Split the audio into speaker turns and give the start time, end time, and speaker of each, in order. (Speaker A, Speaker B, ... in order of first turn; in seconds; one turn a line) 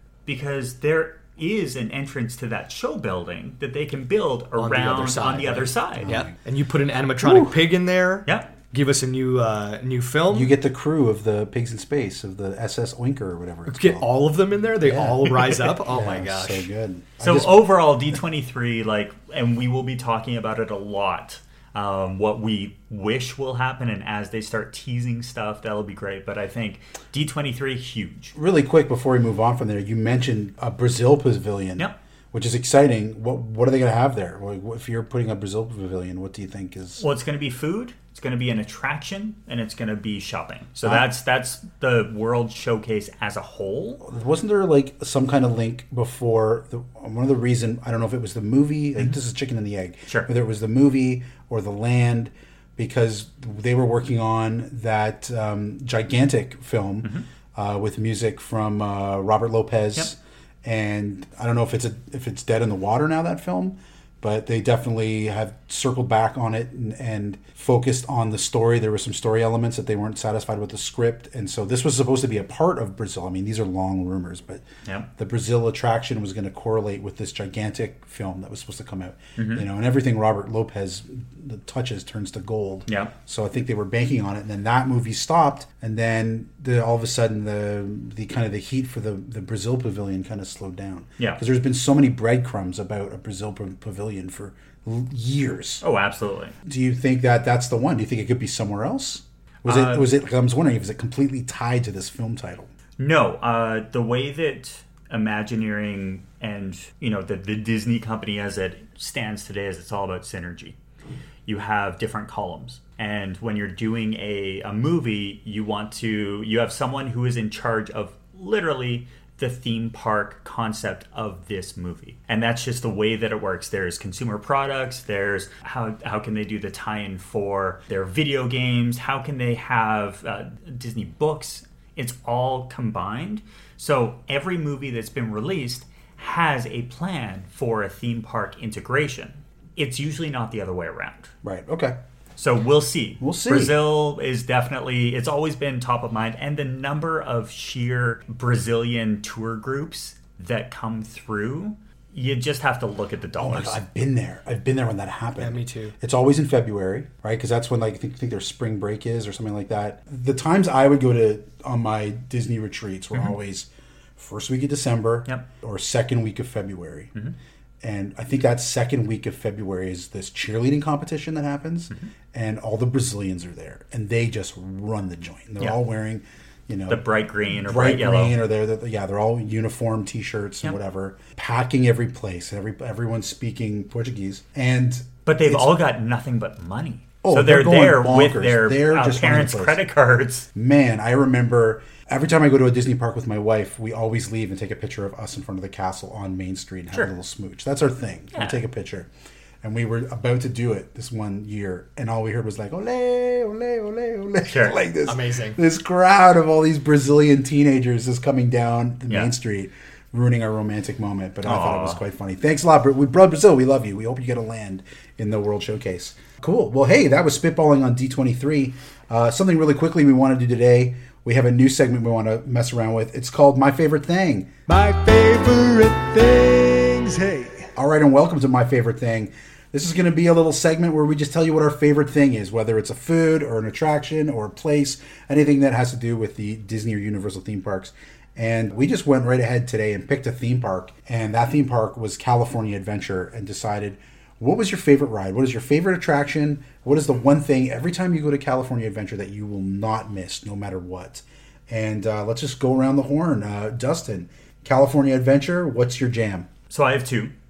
Speaker A: 0.2-6.1
Speaker B: 4.6-10.5
Speaker C: 6.0-6.4
Speaker C: 7.2-7.6
Speaker A: 8.2-8.5
Speaker C: 10.3-14.1
Speaker B: 13.7-16.7
Speaker C: 14.8-17.9
Speaker A: 17.2-28.3
Speaker C: 28.3-37.0
Speaker A: 37.0-44.0
Speaker C: 40.8-41.1
Speaker C: 44.0-95.8
Speaker A: 79.4-79.7
Speaker A: 82.9-83.1
Speaker A: 95.8-96.5
Speaker C: 96.6-102.7
Speaker A: 99.6-100.1
Speaker A: 103.0-110.8
Speaker A: 111.5-141.3
Speaker C: 141.4-142.0
Speaker A: 142.4-153.8
Speaker C: 143.2-143.8
Speaker C: 153.4-167.1
Speaker B: 155.4-155.9
Speaker C: 167.8-185.8
Speaker A: 176.9-178.4
Speaker A: 185.2-190.5
Speaker C: 187.2-189.8
Speaker C: 190.5-199.1
Speaker A: 198.3-198.6
Speaker C: 199.6-256.5
Speaker A: 204.4-204.8
Speaker B: 205.1-205.6
Speaker A: 209.1-209.3
Speaker A: 211.4-212.0
Speaker A: 256.7-257.3